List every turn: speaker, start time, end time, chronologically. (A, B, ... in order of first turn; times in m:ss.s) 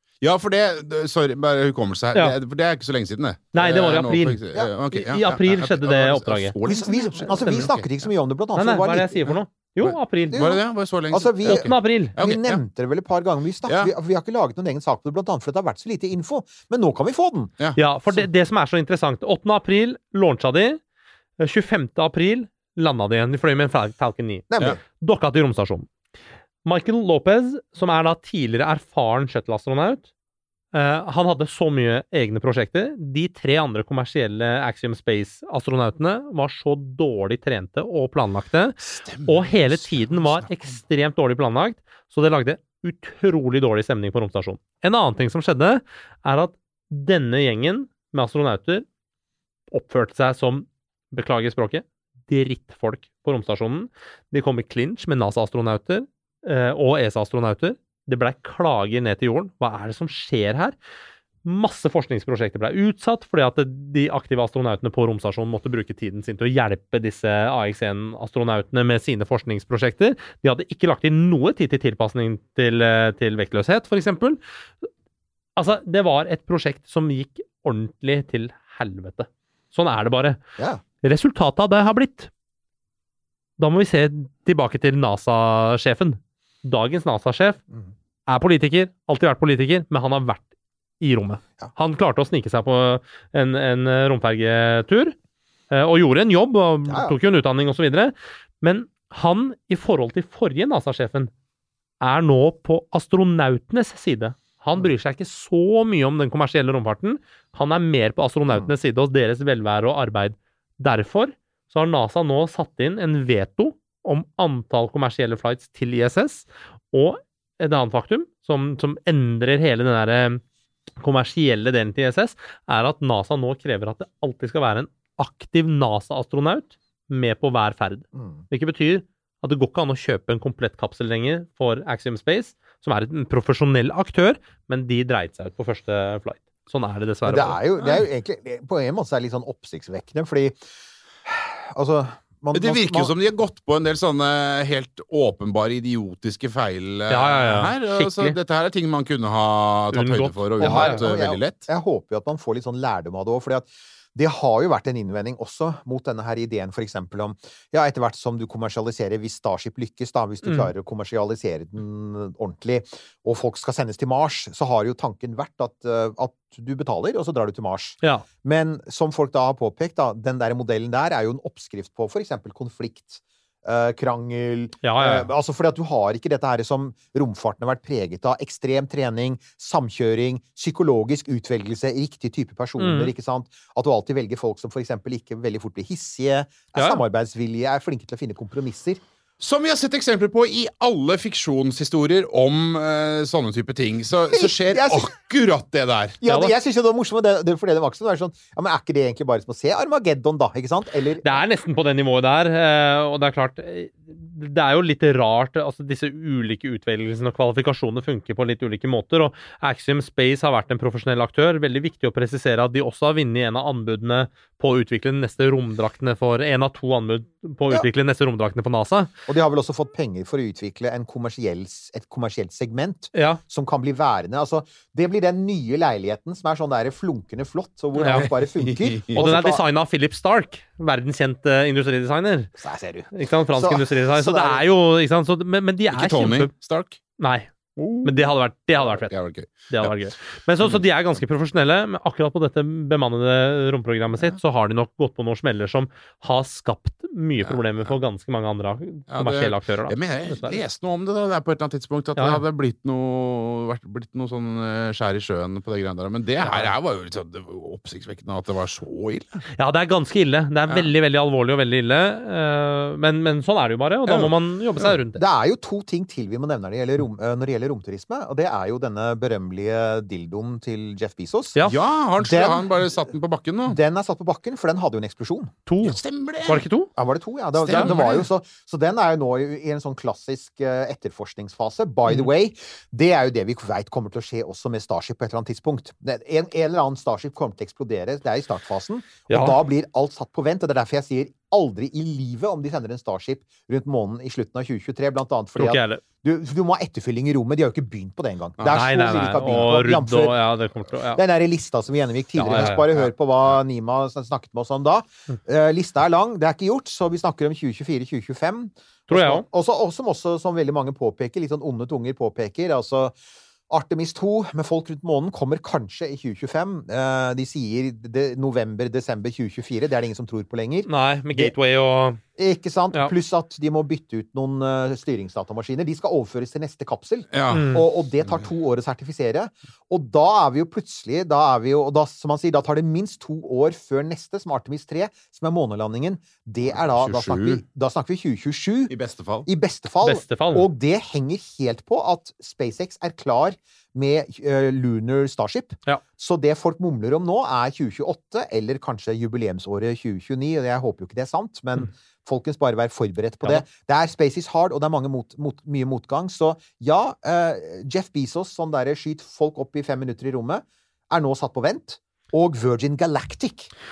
0:00.2-0:07.8 A
0:03.5-0:04.4 B
0:04.9-0:07.8 B
0:06.6-0:09.4 C
0:08.6-0:10.4 B
0:09.8-0:12.6 A
0:10.3-0:17.5 C
0:11.4-0:12.2 B
0:17.8-0:20.8 B
0:21.4-0:24.5 B
0:24.5-0:24.8 C
0:25.0-0:25.9 B
0:26.6-0:30.1 B
0:30.7-0:48.8 B
0:38.9-0:40.8 A
0:49.7-1:00.8 B
1:01.4-1:14.9 B
1:15.6-1:20.4 B
1:21.0-1:22.3 B
1:23.6-1:27.6 B
1:28.3-1:30.5 B
1:31.0-1:35.2 B
1:35.7-1:41.3 B
1:36.9-1:37.2 C
1:42.0-2:00.4 B
2:01.0-2:17.6 B
2:08.1-2:08.4 C
2:17.3-2:20.6 C
2:21.2-2:23.1 C
2:22.5-2:31.6 A
2:27.1-2:28.4 B
2:29.9-2:31.0 B
2:30.6-3:09.0 C
2:40.4-2:40.7 B
2:54.8-2:55.3 B
3:02.8-3:03.1 B
3:06.8-3:07.0 B
3:09.4-3:16.2 A
3:14.3-3:15.1 C
3:16.2-3:21.4 C
3:21.2-3:39.1 B
3:39.3-3:49.6 C
3:43.1-3:43.4 B
3:48.0-3:48.3 B
3:48.0-3:49.2 A
3:49.2-3:52.5 B
3:52.6-3:54.6 C
3:53.1-3:56.5 B
3:55.9-3:57.0 A
3:57.2-3:57.5 B
3:57.8-4:00.0 A
3:58.0-3:59.2 B
3:59.7-4:10.6 B
4:07.4-4:07.9 A
4:09.1-4:19.4 A
4:16.4-4:16.7 C
4:19.6-4:25.2 B
4:24.1-4:24.9 A
4:25.1-4:31.6 C
4:31.6-4:33.8 A
4:32.2-4:32.7 C
4:33.7-4:35.5 C
4:35.7-4:36.9 B
4:35.8-4:36.7 A
4:37.0-5:00.4 C
4:37.6-4:38.3 A
4:37.7-4:38.0 B
4:49.3-4:49.6 B
4:55.6-4:56.0 B
4:58.6-4:58.8 A
4:58.7-5:01.2 B
5:01.1-5:13.2 C
5:02.4-5:02.9 B
5:09.1-5:09.4 B
5:13.7-5:21.5 C
5:20.9-5:22.2 B
5:22.4-5:39.0 C
5:27.3-5:27.8 A
5:27.5-5:27.8 B
5:36.8-5:37.6 A
5:38.9-5:39.5 A
5:39.5-6:03.7 C
5:40.0-5:40.7 B